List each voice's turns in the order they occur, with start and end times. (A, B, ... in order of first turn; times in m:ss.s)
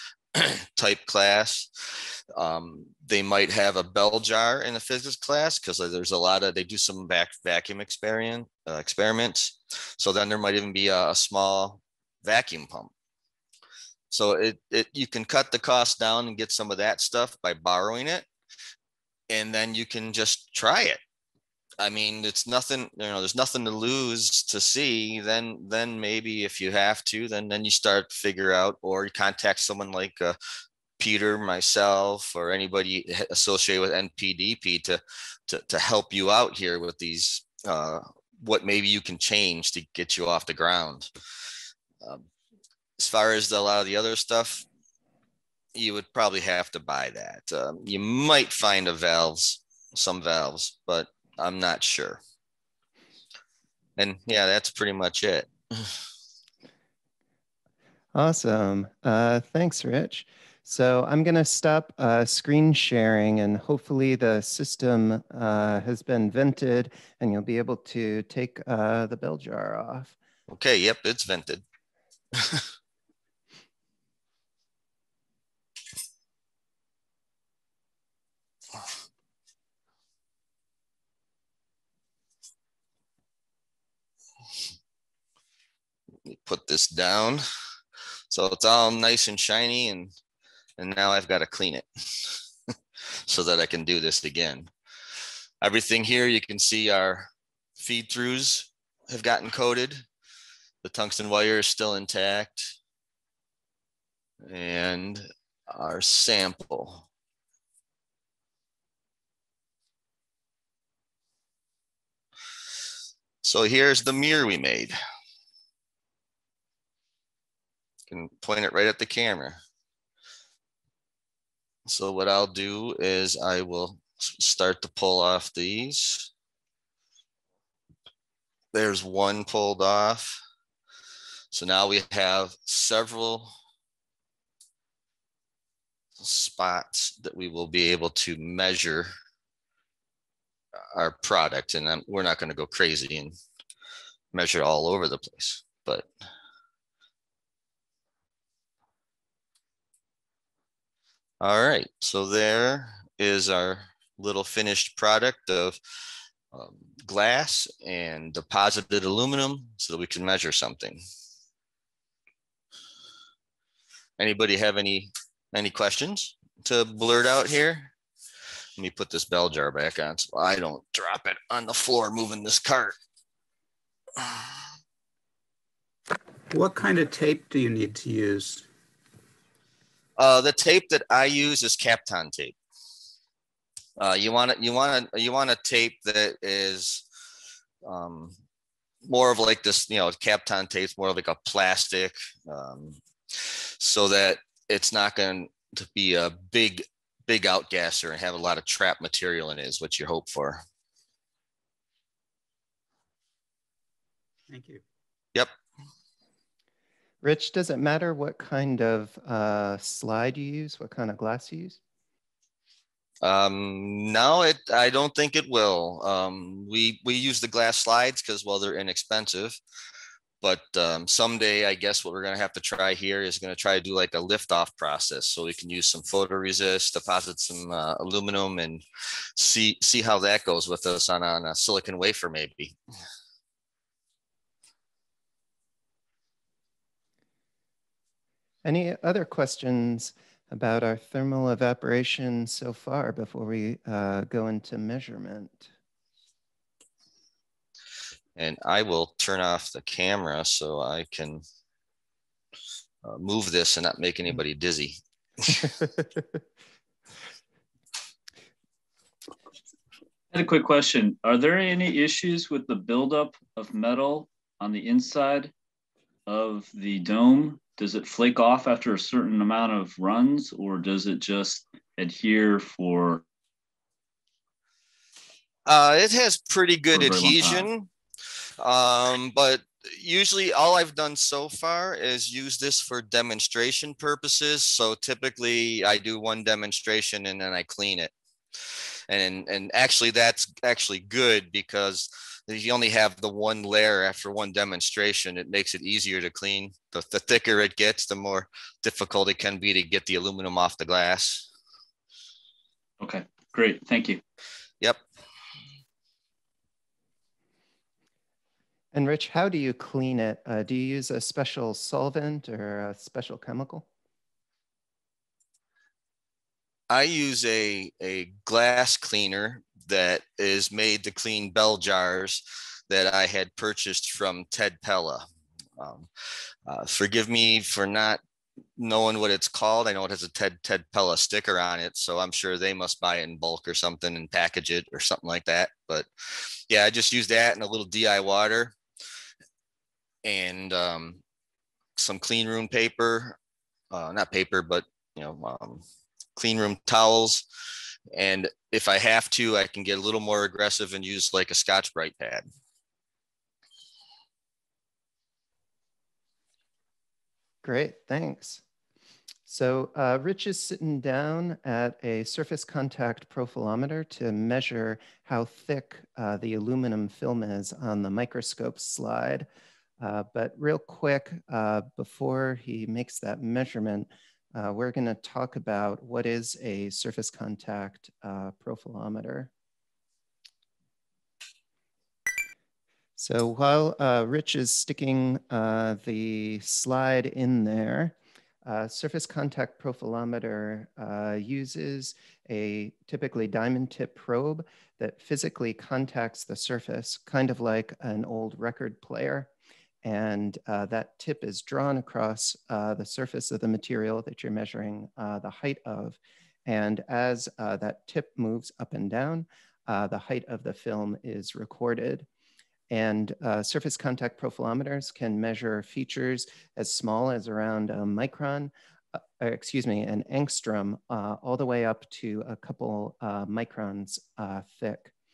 0:00.4-0:01.7 A
0:02.4-0:12.9 A
0:14.1-0:18.3 A
0:19.3-0:21.0 A
0:21.8-0:30.4 A
0:31.0-0:41.1 A
0:43.0-0:44.6 A
0:45.7-0:52.2 A
0:54.0-0:55.9 A
0:58.1-1:10.1 B
1:10.5-1:11.6 A
1:26.2-1:27.4 A
1:28.3-1:30.1 A
1:30.8-1:32.3 A
1:33.3-1:34.7 A
1:35.6-1:40.0 A
1:40.8-1:42.7 A
1:44.5-1:47.0 A
1:53.4-1:54.9 A
1:58.1-1:59.6 A
2:01.8-2:06.3 A
2:08.7-2:10.4 A
2:11.5-2:13.5 A
2:16.2-2:19.1 A
2:20.9-2:23.3 A
2:24.3-2:26.1 A
2:31.4-2:35.8 A
2:36.5-2:41.0 A
2:44.2-2:47.9 A
2:48.8-2:53.0 A
2:56.5-2:58.6 C
3:00.2-3:02.6 A
3:04.0-3:07.0 A
3:07.8-3:08.3 A
3:09.0-3:20.6 A
3:24.5-3:24.8 C
3:27.2-3:31.8 B
3:33.2-3:39.6 A
3:40.4-3:48.8 A
3:49.4-3:52.8 A
3:58.6-4:05.7 B
4:08.4-4:11.4 A
4:13.0-4:15.6 A
4:20.3-4:25.5 D
4:26.3-4:33.2 D
4:35.6-4:37.9 A
4:36.9-4:37.7 D
4:38.6-4:48.1 A
4:49.1-5:01.5 A
5:03.0-5:04.2 D
5:08.9-5:13.8 B
5:16.9-5:25.2 A
5:25.8-5:26.1 A
5:26.7-5:28.2 A
5:28.8-5:38.8 A
5:40.2-5:41.2 A
5:42.0-5:43.4 A
5:43.9-5:45.8 A
5:46.4-5:47.4 A
5:48.1-5:52.4 A
5:57.6-5:58.6 B
5:59.5-6:09.5 B
6:10.0-6:19.5 B
6:23.2-6:39.5 B
6:40.0-6:52.2 B
6:52.9-6:58.7 B
6:59.4-7:05.1 B